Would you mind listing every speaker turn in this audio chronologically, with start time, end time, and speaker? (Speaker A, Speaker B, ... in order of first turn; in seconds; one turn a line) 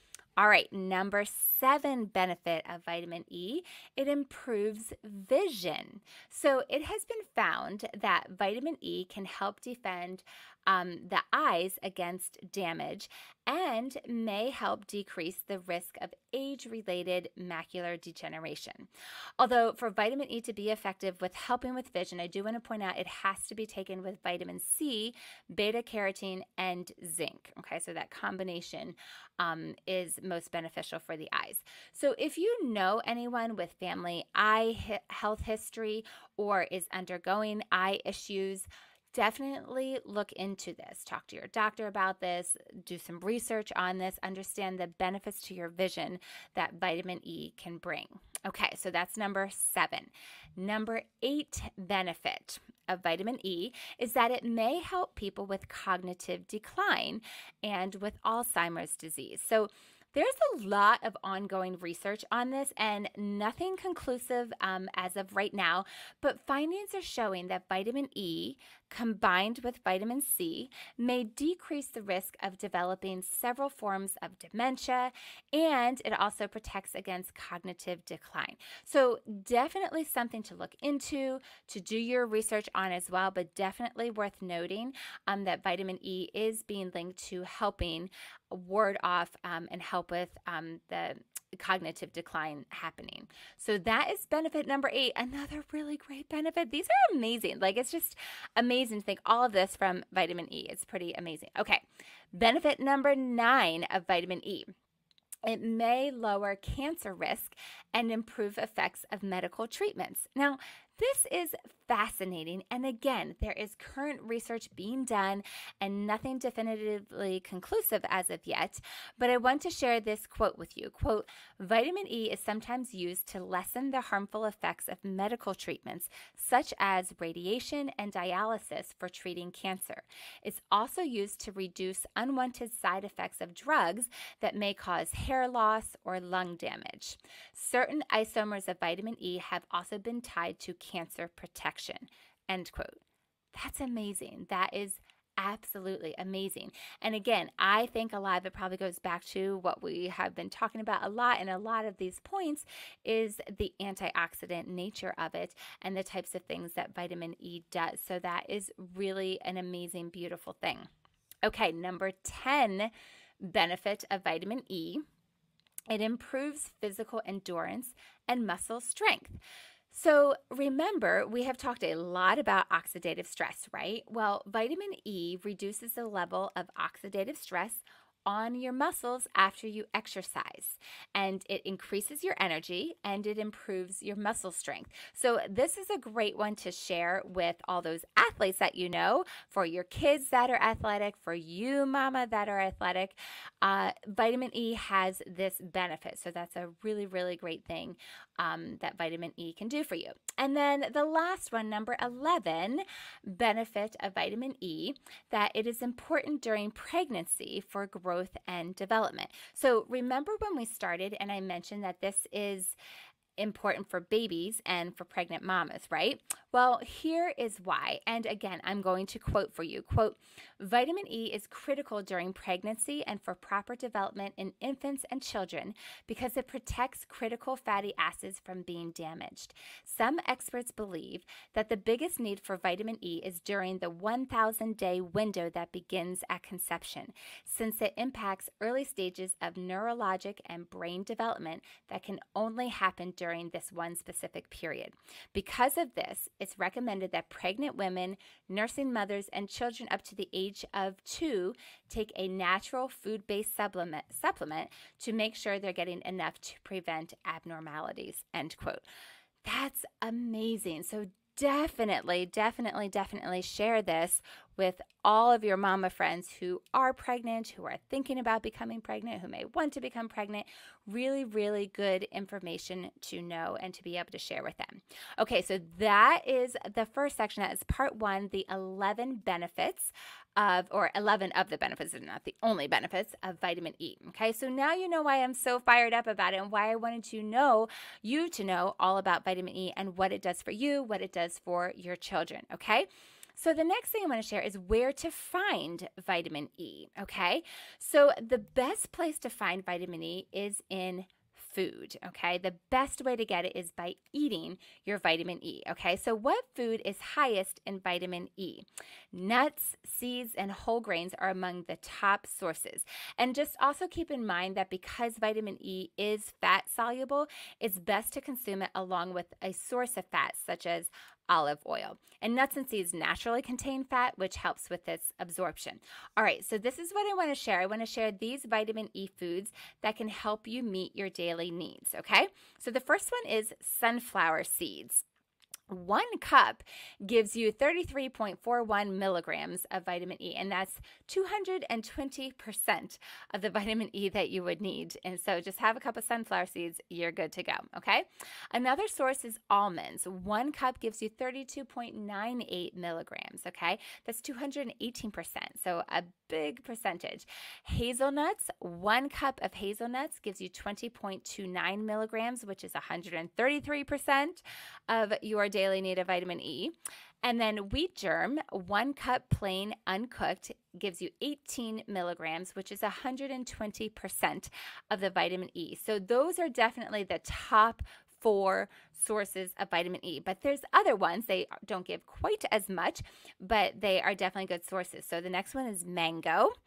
Speaker A: 0.4-104.7
Speaker A: 105.4-143.0
Speaker A: 143.5-160.9
Speaker A: 161.4-165.0
Speaker A: 165.9-212.8
Speaker A: 213.4-258.8
Speaker A: 259.4-335.0
Speaker A: 335.7-386.5